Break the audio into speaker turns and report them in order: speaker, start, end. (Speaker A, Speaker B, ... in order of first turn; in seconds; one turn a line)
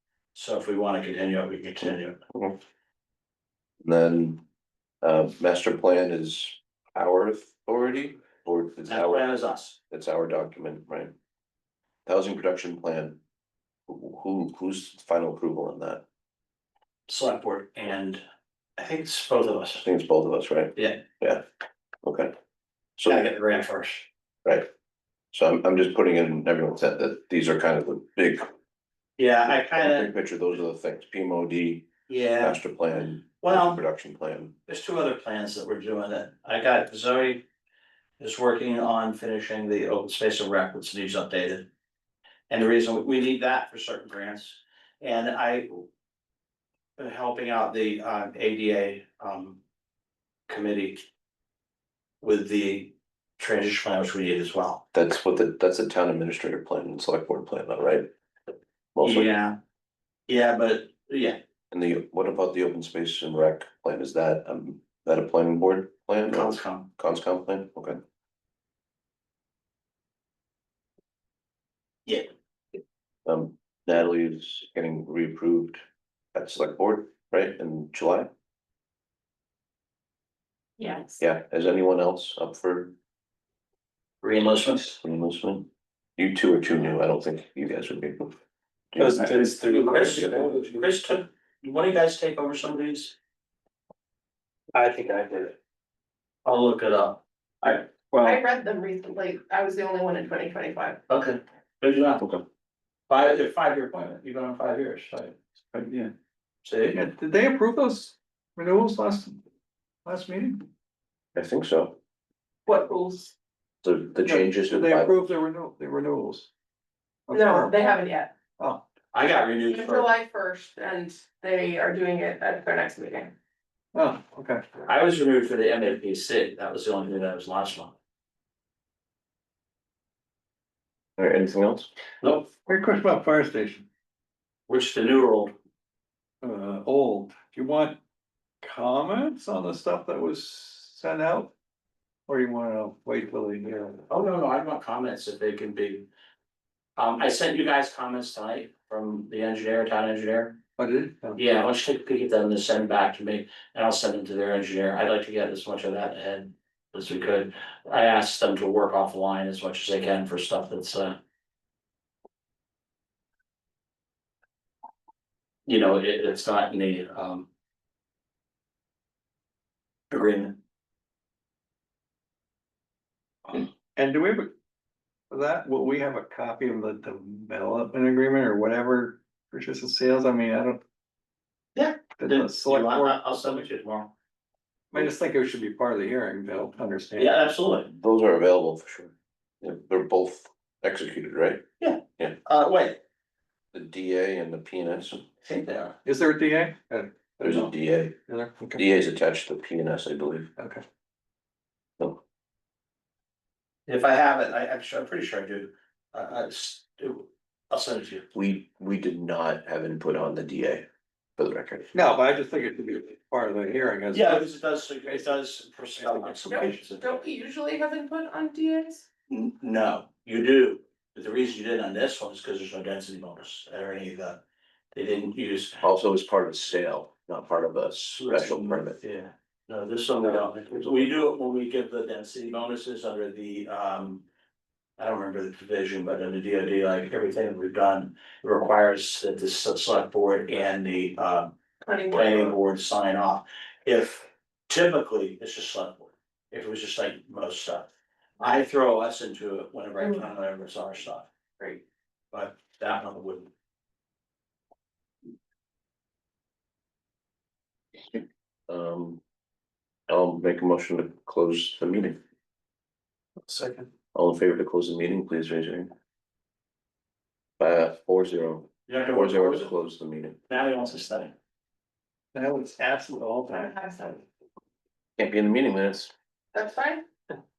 Speaker A: 0.3-2.2
Speaker B: 3.8-4.4
Speaker B: 5.0-9.2
Speaker A: 8.9-9.8
Speaker B: 9.9-11.1
Speaker B: 12.1-13.2
Speaker B: 13.9-16.0
Speaker A: 17.1-18.2
Speaker A: 18.8-19.8
Speaker B: 19.8-21.4
Speaker A: 20.8-21.0
Speaker B: 22.0-22.3
Speaker B: 23.0-23.3
Speaker A: 23.1-24.1
Speaker B: 25.3-28.5
Speaker A: 29.2-30.1
Speaker B: 29.5-34.5
Speaker A: 32.1-32.6
Speaker A: 33.4-33.8
Speaker A: 34.7-37.4
Speaker A: 38.2-41.7
Speaker A: 42.5-45.9
Speaker A: 47.0-49.6
Speaker A: 50.5-51.0
Speaker A: 52.2-54.8
Speaker B: 54.9-58.1
Speaker B: 58.9-59.3
Speaker A: 59.0-59.5
Speaker A: 60.3-61.4
Speaker B: 61.7-68.0
Speaker A: 66.3-66.9
Speaker B: 73.2-75.8
Speaker B: 76.3-78.3
Speaker C: 80.8-81.2
Speaker B: 81.2-82.9
Speaker A: 84.2-85.0
Speaker B: 85.0-88.3
Speaker B: 88.9-89.4
Speaker D: 89.0-90.9
Speaker A: 89.3-93.1
Speaker D: 94.7-95.5
Speaker A: 96.4-97.8
Speaker D: 98.0-98.4
Speaker C: 98.2-101.0
Speaker A: 101.1-102.2
Speaker A: 103.1-105.3
Speaker D: 105.7-106.1
Speaker A: 106.6-107.0
Speaker D: 106.9-109.4
Speaker D: 110.0-110.6
Speaker B: 111.3-112.0
Speaker C: 112.7-113.3
Speaker B: 113.8-115.2
Speaker D: 114.2-116.5
Speaker D: 117.3-117.8
Speaker C: 117.3-118.3
Speaker D: 118.6-118.8
Speaker A: 119.1-120.1
Speaker C: 119.7-123.3
Speaker D: 123.9-124.7
Speaker A: 124.8-127.9
Speaker B: 131.2-131.9
Speaker A: 132.2-132.5
Speaker D: 132.7-133.9
Speaker A: 134.7-135.5
Speaker D: 136.4-138.0
Speaker D: 138.6-141.5
Speaker D: 142.3-144.0
Speaker A: 144.1-146.1
Speaker A: 147.0-150.6
Speaker D: 150.8-151.4
Speaker A: 151.3-161.2
Speaker A: 165.7-167.5
Speaker A: 170.1-170.6
Speaker D: 173.9-174.5
Speaker D: 175.3-180.8
Speaker A: 181.8-184.1
Speaker D: 182.2-183.2
Speaker D: 184.9-187.4
Speaker A: 187.2-187.9
Speaker B: 187.9-191.6
Speaker A: 191.8-193.0
Speaker B: 193.7-195.2
Speaker A: 195.4-195.9
Speaker D: 196.0-197.7
Speaker B: 197.4-198.2
Speaker D: 198.3-198.8
Speaker B: 198.7-200.5
Speaker D: 200.6-200.8
Speaker A: 203.9-208.2
Speaker B: 208.3-210.8
Speaker B: 211.4-211.9
Speaker D: 211.9-214.4
Speaker A: 214.1-217.2
Speaker C: 216.5-219.1
Speaker A: 219.3-224.4
Speaker A: 224.9-225.8
Speaker B: 225.8-229.0
Speaker A: 228.2-234.2
Speaker A: 235.0-241.5
Speaker C: 241.8-242.6
Speaker A: 242.1-247.9
Speaker A: 248.4-251.3
Speaker A: 252.3-253.5
Speaker B: 258.7-259.2
Speaker B: 260.1-262.2
Speaker D: 263.4-263.9
Speaker B: 264.1-265.9
Speaker B: 267.6-270.4
Speaker A: 268.9-269.7
Speaker A: 270.5-271.3
Speaker D: 272.3-273.7
Speaker C: 273.5-274.2
Speaker B: 275.2-276.1
Speaker C: 276.5-277.0